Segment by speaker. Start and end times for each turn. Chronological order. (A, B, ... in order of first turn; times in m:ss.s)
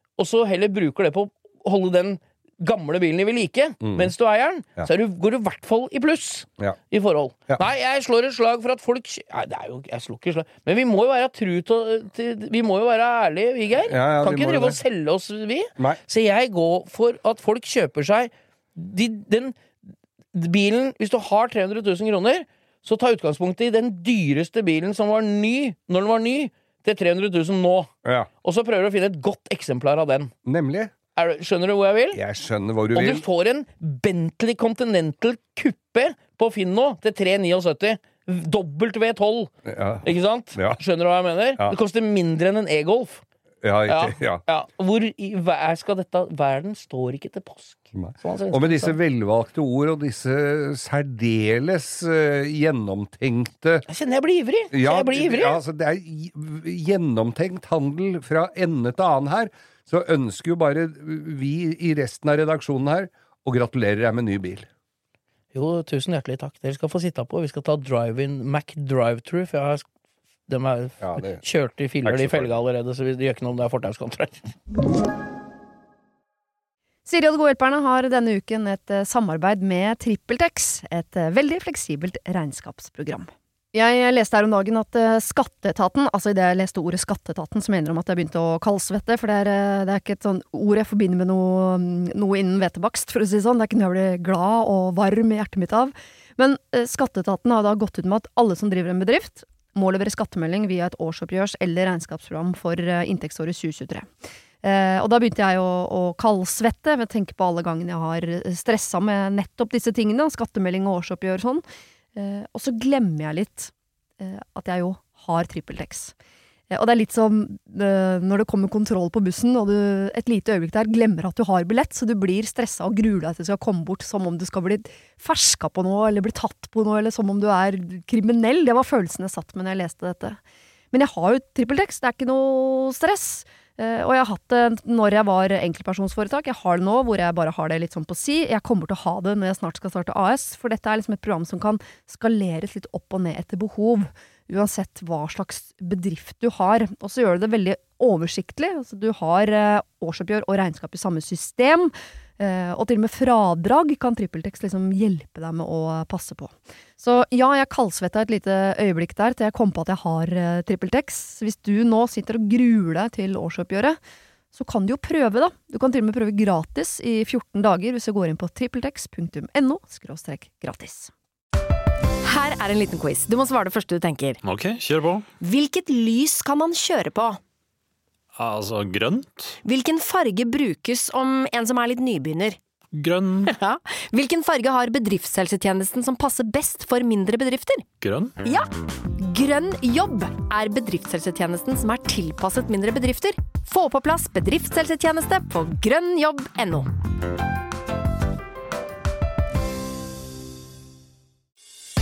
0:00.2-0:19.6 A
0:03.8-0:04.1 B
0:13.9-0:14.8 B
0:20.3-0:27.9 A
0:28.0-0:28.3 B
0:28.4-0:30.3 A
0:30.4-0:30.9 B
0:31.2-0:32.2 A
0:32.1-0:33.2 B
0:32.9-0:39.5 A
0:39.6-0:40.8 B
0:40.0-0:43.2 A
0:43.6-0:44.4 B
0:43.9-0:49.0 A
0:47.9-0:53.8 B
0:53.9-0:55.6 A
0:54.7-1:04.7 B
1:05.5-1:09.8 A
1:10.5-1:14.5 A
1:11.0-1:11.4 B
1:12.0-1:12.6 B
1:17.0-1:44.1 C
1:44.6-1:51.6 C
1:52.1-1:56.1 C
1:56.7-2:10.4 C
2:10.9-2:44.0 C
2:44.5-2:51.1 C
2:52.3-2:54.4 D
2:54.4-2:55.2 E
2:55.4-2:57.4 D
2:58.3-2:59.6 E
2:59.6-3:02.6 D
3:02.9-3:03.5 E
3:03.4-3:07.8 D
3:08.0-3:08.4 E
3:09.2-3:16.9 D